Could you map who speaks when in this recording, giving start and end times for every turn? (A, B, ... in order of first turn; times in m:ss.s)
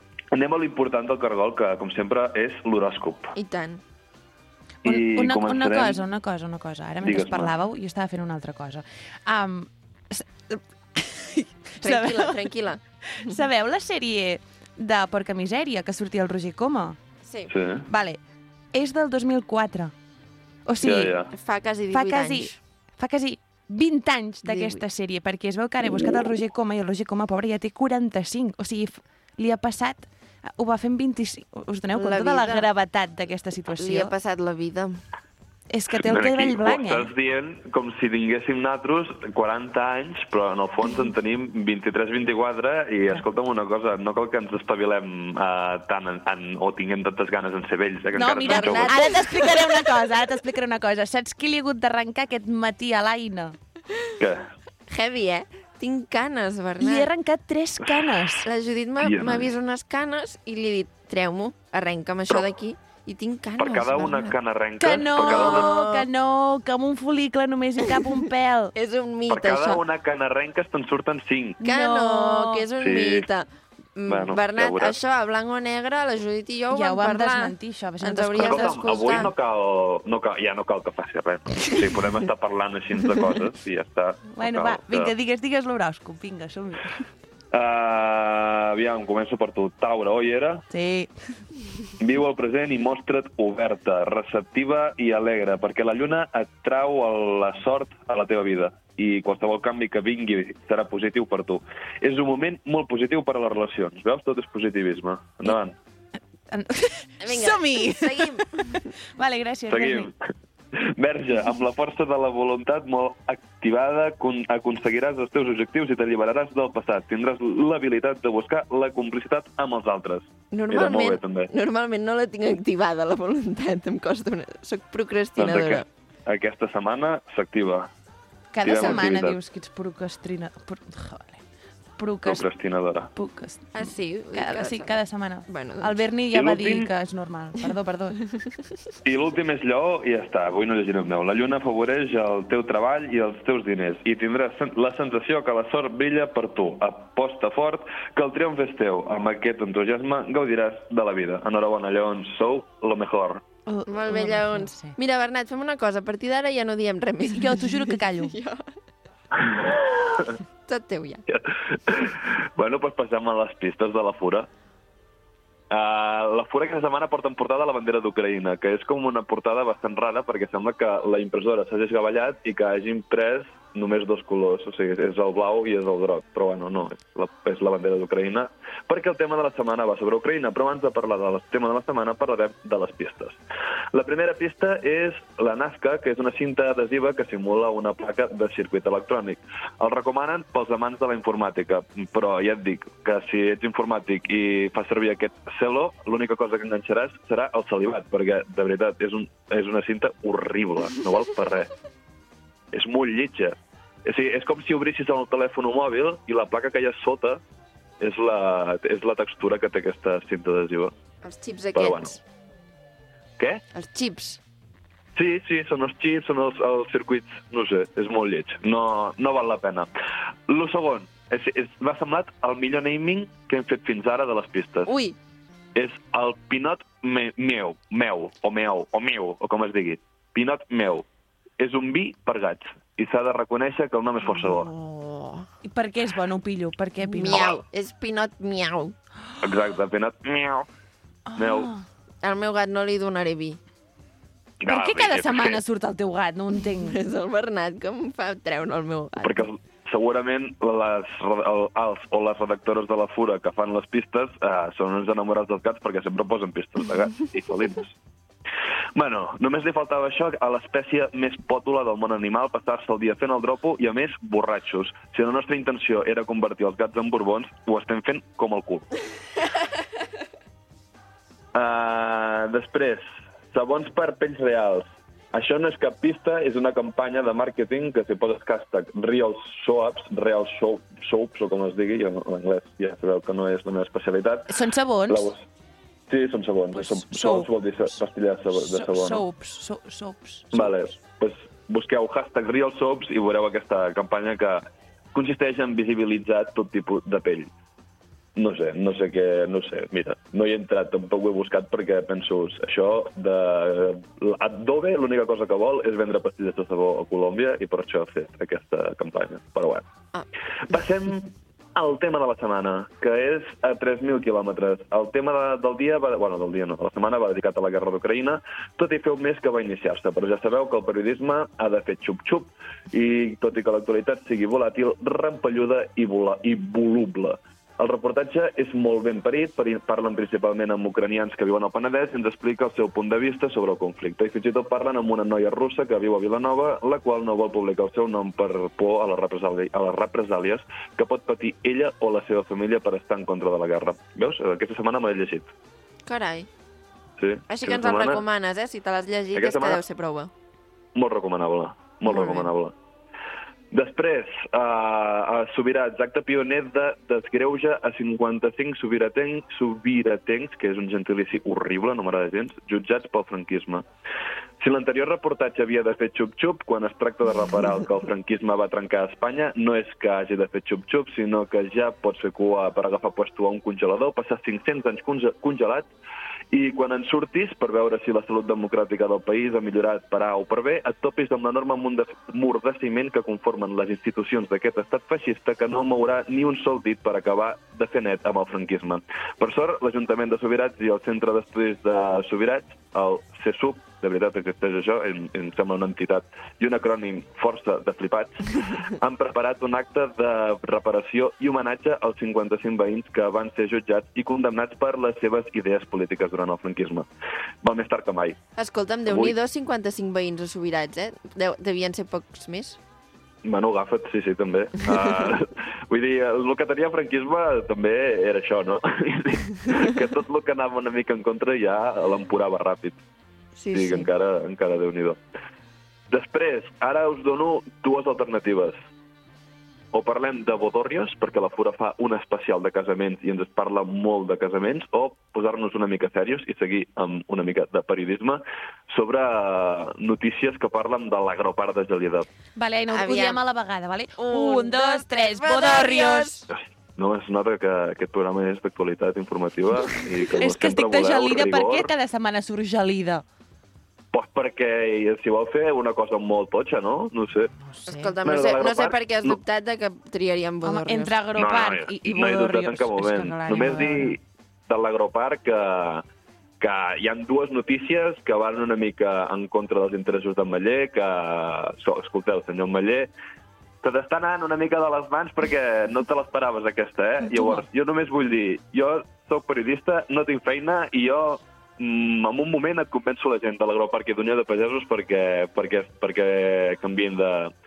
0:00.3-0:03.3 A
0:03.4-0:03.8 B
0:04.8-0:06.0 A
0:04.8-0:12.5 C
0:07.0-0:07.5 A
0:11.8-0:13.4 B
0:13.1-0:17.0 C
0:17.2-0:17.5 B
0:17.5-0:17.9 A
0:17.9-0:18.2 C
0:18.7-0:20.0 C
0:20.7-0:21.2 C
0:20.8-0:21.3 A
0:21.3-0:22.6 B
0:21.9-0:34.1 C
0:24.4-0:24.8 B
0:31.9-0:32.7 B
0:33.8-0:35.0 B
0:35.7-0:37.1 C
0:36.0-0:49.0 A
0:48.2-0:53.6 C
0:48.4-0:49.7 B
0:54.2-0:54.5 A
0:54.9-0:57.1 B
0:56.8-0:58.5 C
0:58.4-1:04.4 B
0:59.0-0:59.5 A
1:03.6-1:05.7 A
1:04.8-1:08.7 C
1:05.2-1:06.1 B
1:08.8-1:09.8 B
1:09.3-1:11.6 A
1:11.6-1:19.3 B
1:11.6-1:12.7 C
1:12.8-1:13.3 A
1:14.1-1:15.0 A
1:16.7-1:18.8 C
1:18.4-1:25.1 A
1:24.3-1:26.9 C
1:27.5-1:30.6 A
1:30.7-1:31.1 C
1:32.0-1:45.8 A
1:46.5-1:50.1 C
1:47.2-1:48.9 B
1:49.7-1:50.1 A
1:50.8-2:01.5 A
2:00.5-2:05.8 B
2:05.4-2:07.9 A
2:08.5-2:11.4 C
2:08.6-2:09.4 A
2:08.8-2:09.1 B
2:12.0-2:12.4 C
2:12.2-2:13.1 A
2:13.1-2:18.2 C
2:13.7-2:16.0 B
2:16.3-2:16.9 A
2:19.0-2:33.4 A
2:33.7-2:35.0 C
2:33.9-2:38.7 B
2:37.3-2:38.4 C
2:39.4-2:39.6 A
2:40.7-2:41.2 B
2:41.3-2:44.5 A
2:45.7-3:03.4 A
3:03.9-3:21.7 A
3:22.7-3:27.4 A
3:28.0-3:30.9 A
3:31.2-3:32.2 B
3:31.8-3:32.2 A
3:33.7-3:34.4 B
3:35.2-3:39.9 A
3:40.5-3:44.9 A
3:44.9-3:45.2 B
3:45.8-3:51.0 A
3:51.6-3:54.7 A
3:54.4-3:55.5 B
3:55.6-3:57.6 C
3:57.1-3:59.0 B
3:59.4-4:00.7 A
4:01.3-4:01.9 C
4:01.4-4:01.7 A
4:02.2-4:03.6 B
4:04.6-4:05.6 A
4:04.7-4:07.0 C
4:06.8-4:09.5 B
4:09.2-4:18.0 A
4:19.0-4:28.9 A
4:31.6-4:44.5 A
4:44.5-4:45.3 C
4:45.1-4:45.4 A
4:46.1-4:49.2 A
4:46.7-4:47.5 C
4:48.5-4:50.7 C
4:50.5-4:57.5 A
4:58.4-5:09.8 A
5:10.7-5:45.5 A
5:46.0-5:46.5 B
5:47.2-5:48.2 A
5:47.5-5:50.3 B
5:49.3-5:49.8 A
5:51.0-5:52.7 A
5:52.0-5:52.5 B
5:53.7-6:03.8 A
6:04.6-6:15.9 A
6:16.5-6:47.1 A
6:47.6-6:48.4 A
6:48.6-6:52.8 B
6:49.1-6:49.4 A
6:53.4-7:03.0 A
6:55.0-6:55.3 B
7:03.6-7:04.1 B
7:03.7-7:05.2 A
7:06.1-7:08.8 A
7:09.9-7:22.3 A
7:22.6-7:26.5 C
7:22.9-7:23.4 B
7:24.2-7:26.5 B
7:26.5-7:31.9 A
7:30.4-7:33.2 C
7:34.1-7:37.5 A
7:37.6-7:38.2 C
7:37.9-7:41.2 B
7:38.2-7:39.4 A
7:40.6-7:44.2 C
7:41.4-7:46.0 A
7:46.6-7:53.1 A
7:53.8-8:07.5 A
7:57.3-7:57.6 C